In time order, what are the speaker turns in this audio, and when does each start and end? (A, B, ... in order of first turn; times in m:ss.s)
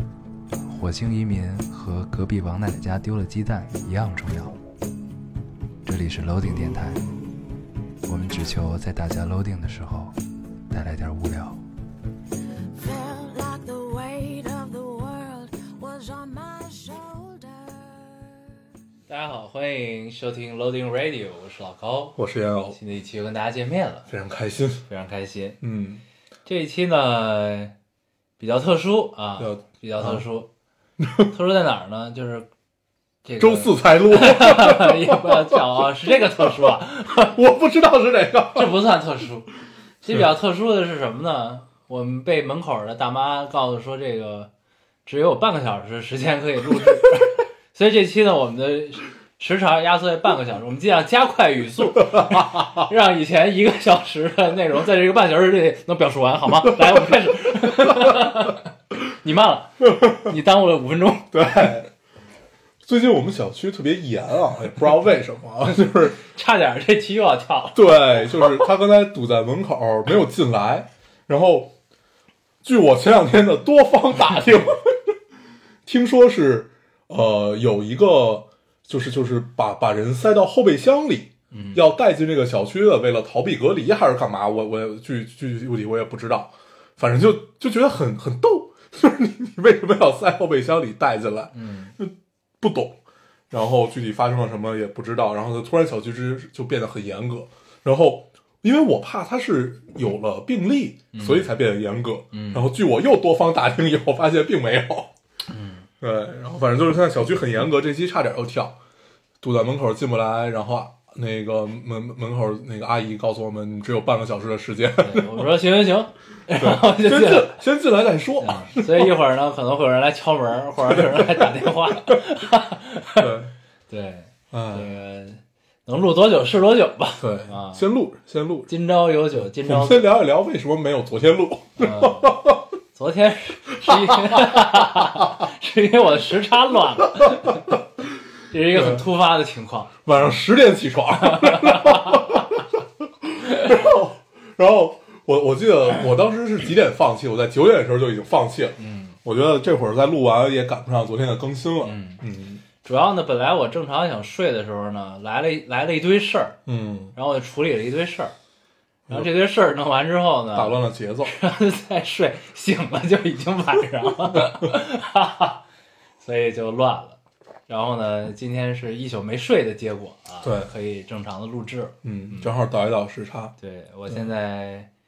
0:00.7-0:04.6 A
0:05.8-0:07.1 A
0:08.0-0:10.2 A
0:10.7-0:11.6 A
0:12.7-0:18.4 B
0:19.1-0:22.2 A
0:22.2-0:22.8 C
0:22.7-0:24.1 A
0:24.1-0:24.8 C
0:24.9-0:25.6 A
0:25.6-0:26.0 C
0:26.5-0:27.8 A
0:28.4-0:30.5 A
0:29.4-0:30.2 C
0:31.0-0:31.3 C
0:31.3-0:32.5 A
0:33.2-0:37.4 A
0:33.4-0:36.6 C
0:37.2-0:38.7 C
0:38.6-0:39.5 A
0:40.0-0:44.5 A
0:45.1-0:58.6 A
0:52.2-0:52.7 C
0:56.6-0:57.1 C
0:57.6-0:58.3 C
0:59.2-1:01.7 A
0:59.8-1:00.3 C
1:01.3-1:01.9 C
1:02.8-1:06.2 C
1:06.2-1:08.5 A
1:07.7-1:11.8 C
1:12.6-1:15.2 C
1:15.9-1:33.0 C
1:21.5-1:21.8 A
1:31.5-1:31.9 A
1:33.5-1:45.1 C
1:41.1-1:41.5 A
1:42.3-1:42.7 A
1:45.5-1:45.9 A
1:46.0-1:48.8 C
1:49.4-1:55.5 C
1:55.0-1:57.6 A
1:56.6-1:59.1 C
1:58.4-2:03.3 A
2:00.9-2:02.2 C
2:03.2-2:03.5 C
2:03.9-2:07.8 A
2:04.5-2:04.9 C
2:07.2-2:08.7 C
2:08.7-2:10.1 A
2:09.6-2:12.6 C
2:11.8-2:12.3 A
2:12.9-2:17.8 A
2:13.8-2:15.2 C
2:18.5-2:20.0 A
2:18.7-2:19.0 C
2:20.1-2:32.6 C
2:21.2-2:22.2 A
2:28.8-2:29.2 A
2:31.8-2:32.2 A
2:32.8-2:36.6 A
2:36.7-2:37.1 C
2:37.2-2:38.4 A
2:39.1-2:45.6 A
2:40.5-2:41.4 C
2:46.2-2:52.5 A
2:50.4-2:50.7 C
2:52.0-2:53.5 C
2:53.6-2:54.9 A